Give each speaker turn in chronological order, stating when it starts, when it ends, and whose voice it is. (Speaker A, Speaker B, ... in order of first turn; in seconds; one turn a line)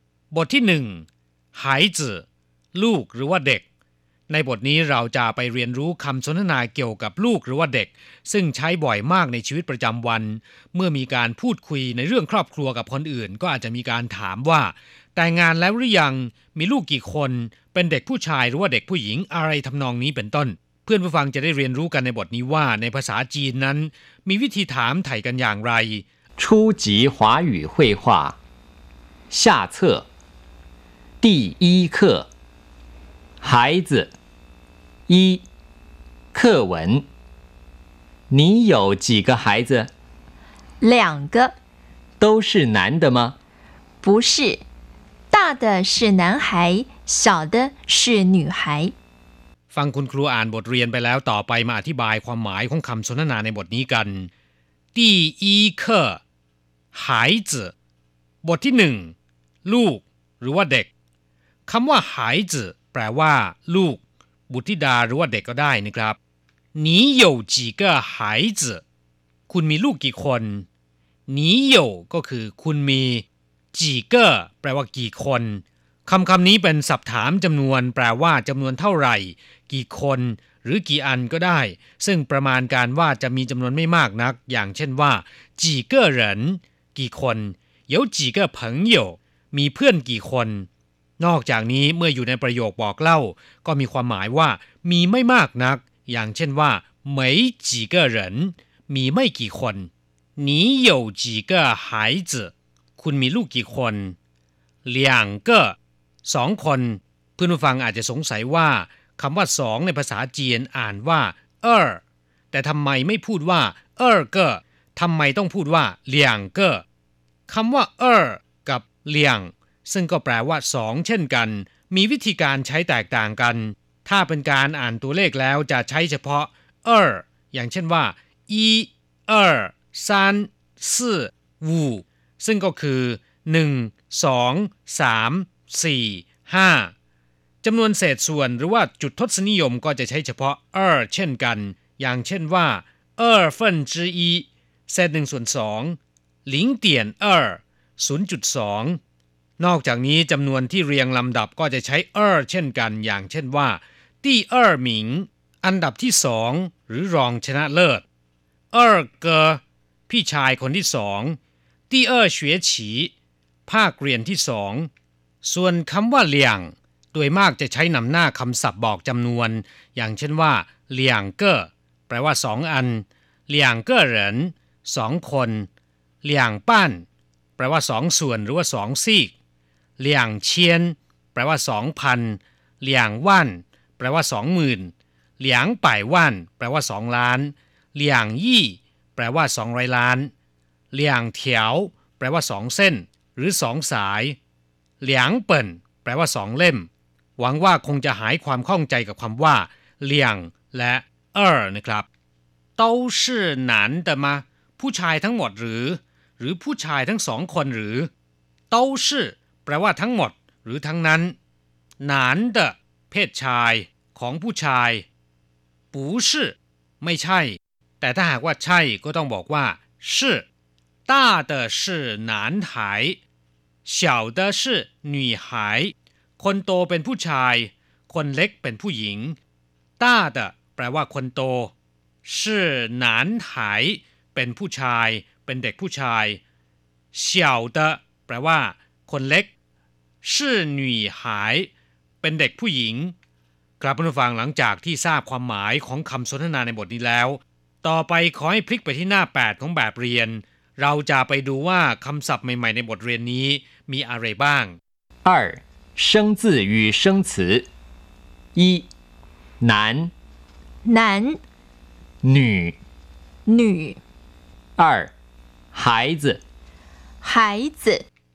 Speaker A: 0.3-3.6
Speaker A: 4.3-26.0
Speaker B: 26.4-28.4
Speaker B: 29.3-30.1
Speaker B: 31.2-32.3
Speaker B: 33.4-34.1
Speaker B: 35.1-35.4
Speaker B: 36.3-37.0
Speaker B: 38.3-39.9
Speaker C: 40.8-41.5
Speaker B: 42.2-43.4
Speaker C: 44.0-44.6
Speaker C: 45.3-48.9
Speaker A: 49.7-54.3
Speaker A: 54.9-56.2
Speaker A: 56.9-57.7
Speaker A: 58.4-60.9
Speaker A: 61.7-66.2
Speaker A: 66.7-68.8
Speaker A: 69.5-70.7
Speaker A: 71.3-90.7
Speaker A: 91.2-104.2
Speaker A: 104.8-112.0
Speaker A: 112.5-116.8
Speaker A: 117.5-136.9
Speaker A: 137.6-149.0
Speaker A: 149.6-158.0
Speaker A: 158.7-161.4
Speaker A: 161.9-163.1
Speaker A: 163.7-164.9
Speaker A: 165.4-175.7
Speaker A: 176.2-177.0
Speaker A: 177.6-179.3
Speaker A: 180.0-190.3
Speaker A: 190.9-194.4
Speaker A: 195.0-202.1
Speaker A: 202.8-208.1
Speaker A: 208.7-211.3
Speaker A: 212.0-215.1
Speaker A: 215.9-220.4
Speaker A: 221.1-223.2
Speaker A: 223.8-229.4
Speaker A: 230.0-231.7
Speaker A: 232.2-236.4
Speaker A: 237.1-239.5
Speaker A: 240.2-241.7
Speaker A: 242.2-243.1
Speaker A: 243.8-254.8
Speaker B: 255.2-257.6
Speaker B: 258.5-258.9
Speaker B: 259.6-260.1
Speaker C: 260.8-261.4
Speaker B: 262.2-262.8
Speaker C: 263.4-264.0
Speaker B: 264.8-265.1
Speaker B: 265.7-266.4
Speaker C: 267.2-268.0